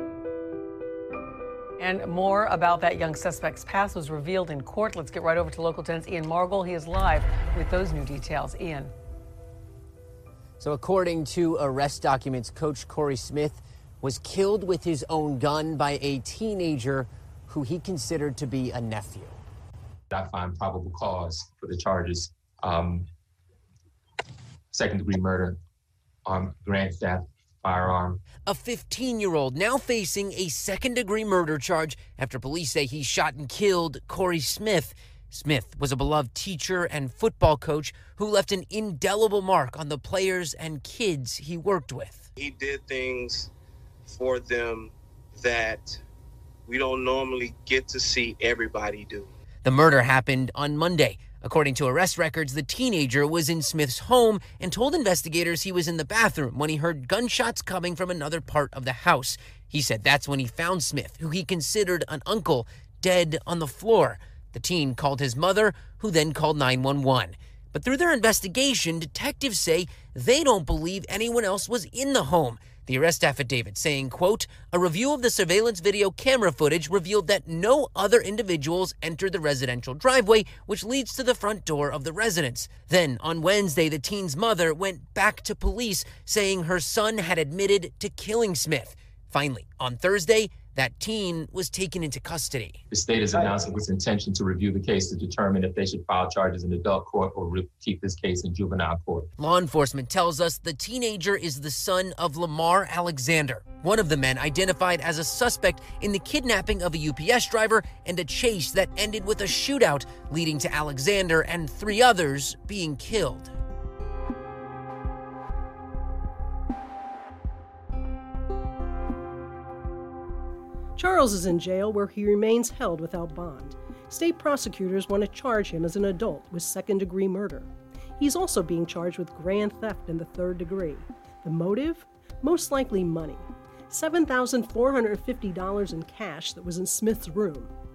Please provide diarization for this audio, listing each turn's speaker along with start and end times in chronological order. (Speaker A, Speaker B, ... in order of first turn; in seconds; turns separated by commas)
Speaker A: 1.8-8.8, Speaker B: 10.6-19.4, Speaker C: 20.1-23.1, Speaker C: 24.7-25.6, Speaker C: 26.2-28.2, Speaker B: 28.3-42.3, Speaker D: 42.4-43.5, Speaker D: 44.1-46.0, Speaker D: 46.7-49.3, Speaker B: 49.6-92.8, Speaker C: 92.9-99.3, Speaker B: 99.4-113.5, Speaker E: 121.0-137.7